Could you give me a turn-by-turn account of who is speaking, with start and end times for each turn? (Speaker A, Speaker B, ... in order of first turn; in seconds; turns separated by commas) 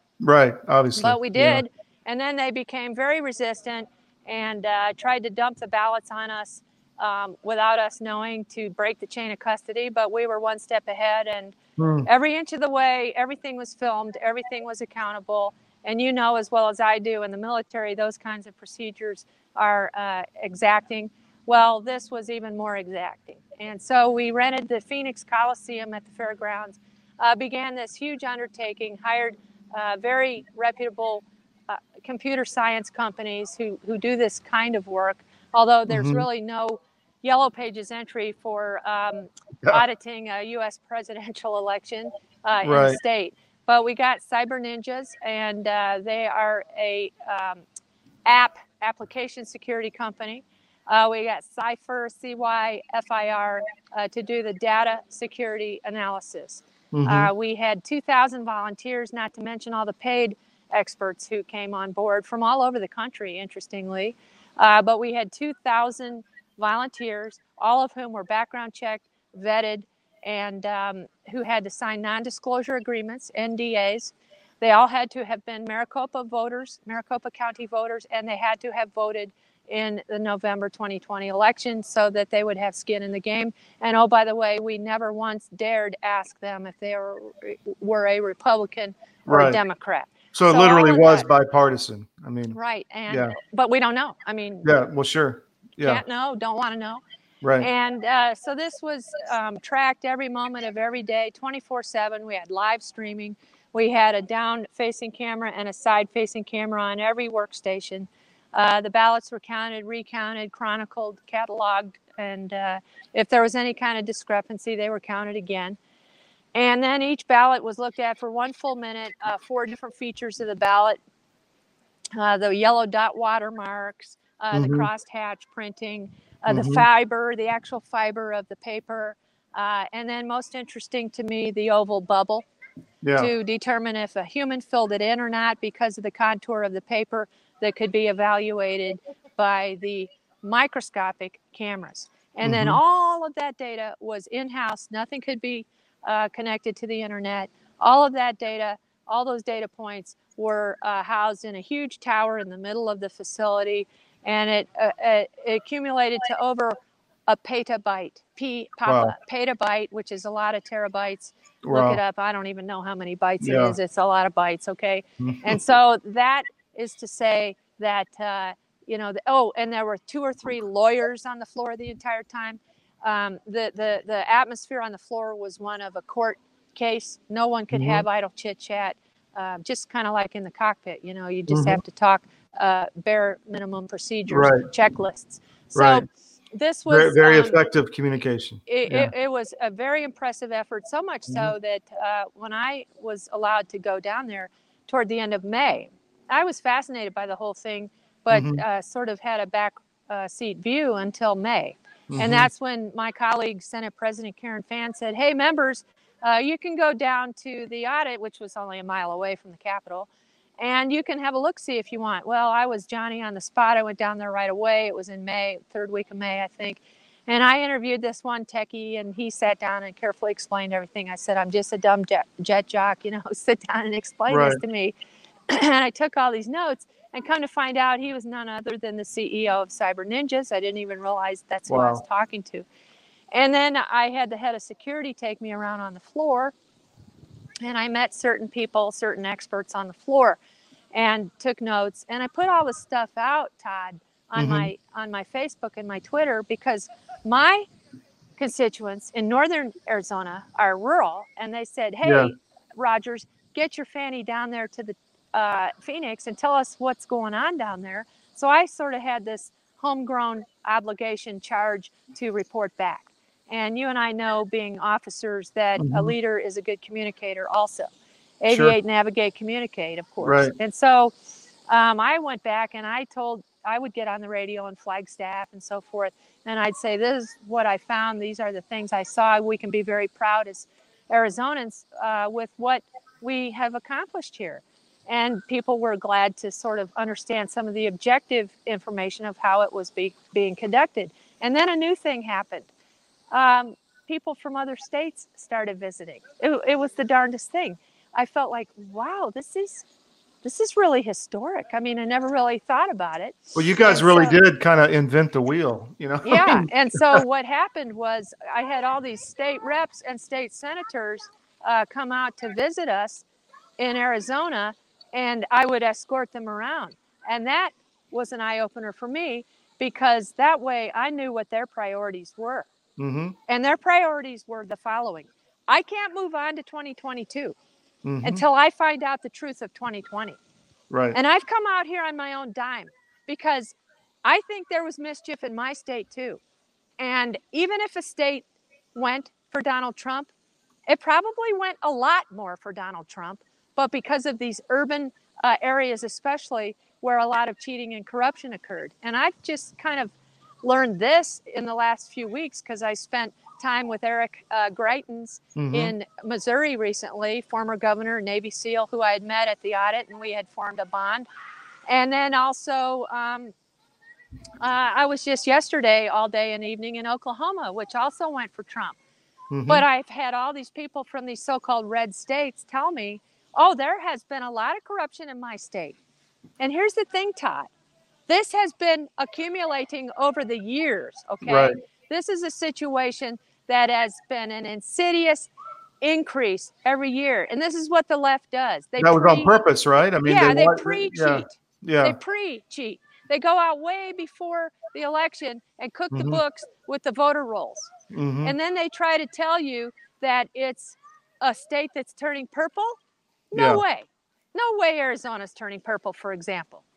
Speaker A: 0.2-1.6, Speaker B: 0.9-47.6, Speaker A: 11.8-12.1, Speaker A: 35.9-36.2, Speaker A: 42.6-43.0, Speaker B: 48.2-91.3, Speaker A: 56.9-57.3, Speaker A: 89.2-89.6, Speaker A: 90.3-93.3, Speaker B: 92.5-94.7, Speaker A: 94.6-96.0, Speaker B: 95.8-97.0, Speaker A: 97.4-97.7, Speaker B: 97.6-115.8, Speaker B: 116.5-121.0, Speaker B: 122.2-132.4, Speaker A: 124.5-124.9, Speaker A: 126.5-126.9, Speaker A: 133.0-133.3, Speaker B: 133.2-156.8, Speaker A: 142.4-142.8, Speaker B: 157.3-187.6, Speaker A: 158.8-159.1, Speaker A: 161.6-162.0, Speaker A: 163.4-163.8, Speaker A: 165.2-165.6, Speaker A: 177.7-178.0, Speaker A: 181.5-181.8, Speaker A: 184.3-184.7, Speaker A: 185.7-186.0, Speaker A: 186.9-189.1, Speaker B: 188.7-224.9, Speaker A: 198.3-198.6, Speaker A: 202.1-202.5, Speaker A: 224.3-224.6, Speaker B: 225.5-232.6, Speaker A: 231.7-232.0, Speaker B: 233.3-236.5, Speaker B: 237.6-240.4, Speaker B: 240.9-247.7, Speaker A: 244.3-244.7, Speaker B: 248.4-267.9, Speaker A: 252.0-252.3, Speaker A: 265.8-266.1, Speaker B: 268.4-271.1, Speaker A: 268.5-268.8, Speaker A: 270.2-270.5, Speaker B: 271.7-292.7, Speaker B: 293.3-299.8, Speaker B: 300.4-304.4, Speaker A: 303.5-307.2, Speaker B: 306.2-313.2, Speaker B: 313.8-322.7, Speaker A: 323.0-323.4, Speaker B: 323.5-327.6, Speaker A: 328.0-328.4, Speaker B: 328.2-330.4, Speaker A: 330.9-331.2, Speaker B: 331.1-336.4, Speaker B: 337.0-340.3, Speaker B: 340.9-361.3, Speaker A: 355.6-355.9, Speaker B: 361.9-363.5, Speaker B: 364.6-369.0, Speaker A: 369.5-369.8, Speaker B: 369.7-376.0, Speaker B: 376.6-377.7, Speaker B: 378.3-389.6, Speaker A: 381.4-381.8, Speaker A: 389.0-392.2, Speaker B: 390.2-397.9, Speaker A: 396.1-396.4, Speaker A: 398.1-398.6, Speaker B: 398.4-403.0, Speaker B: 403.5-406.8, Speaker A: 403.5-403.8